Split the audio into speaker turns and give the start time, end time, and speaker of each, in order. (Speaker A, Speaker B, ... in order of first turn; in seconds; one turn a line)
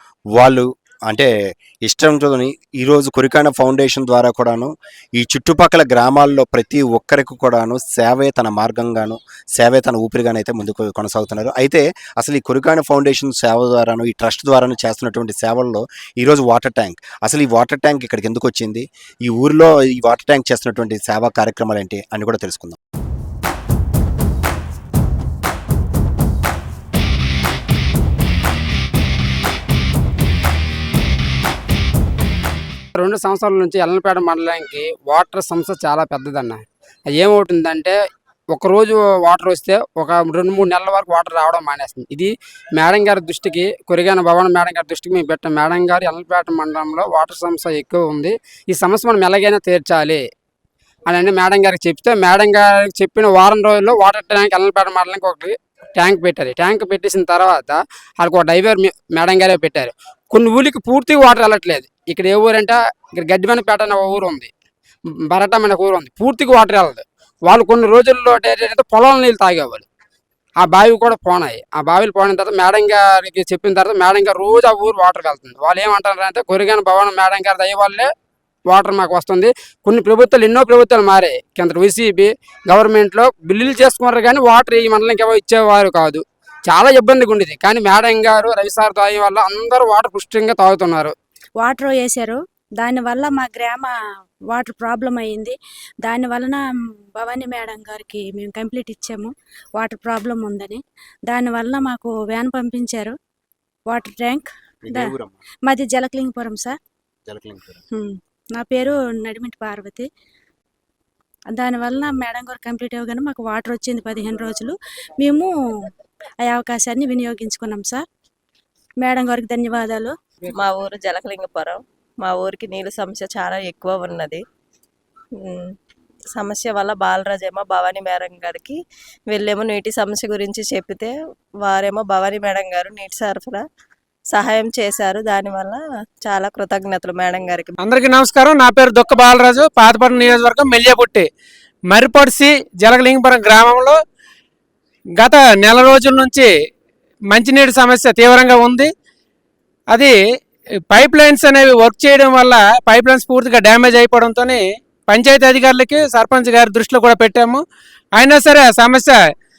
Speaker A: 0.3-1.3
Speaker A: 1.8-22.8
Speaker B: 33.0-38.0
Speaker B: 38.5-50.2
Speaker B: 51.1-64.5
Speaker B: 65.3-69.9
Speaker B: 70.6-78.1
Speaker B: 78.7-91.1
Speaker C: 91.6-93.9
Speaker C: 94.5-96.6
Speaker C: 97.2-103.1
Speaker C: 103.8-105.1
Speaker A: 104.8-105.4
Speaker C: 105.6-106.8
Speaker A: 107.3-107.8
Speaker C: 107.9-110.0
Speaker C: 111.5-115.5
Speaker C: 116.4-118.0
Speaker C: 119.0-120.1
Speaker D: 120.5-124.4
Speaker D: 125.4-125.7
Speaker D: 126.3-128.8
Speaker D: 129.3-133.6
Speaker D: 134.3-137.7
Speaker E: 137.8-141.2
Speaker E: 141.9-144.0
Speaker E: 145.2-146.5
Speaker E: 147.3-148.9
Speaker E: 150.9-157.6
Speaker E: 158.2-159.2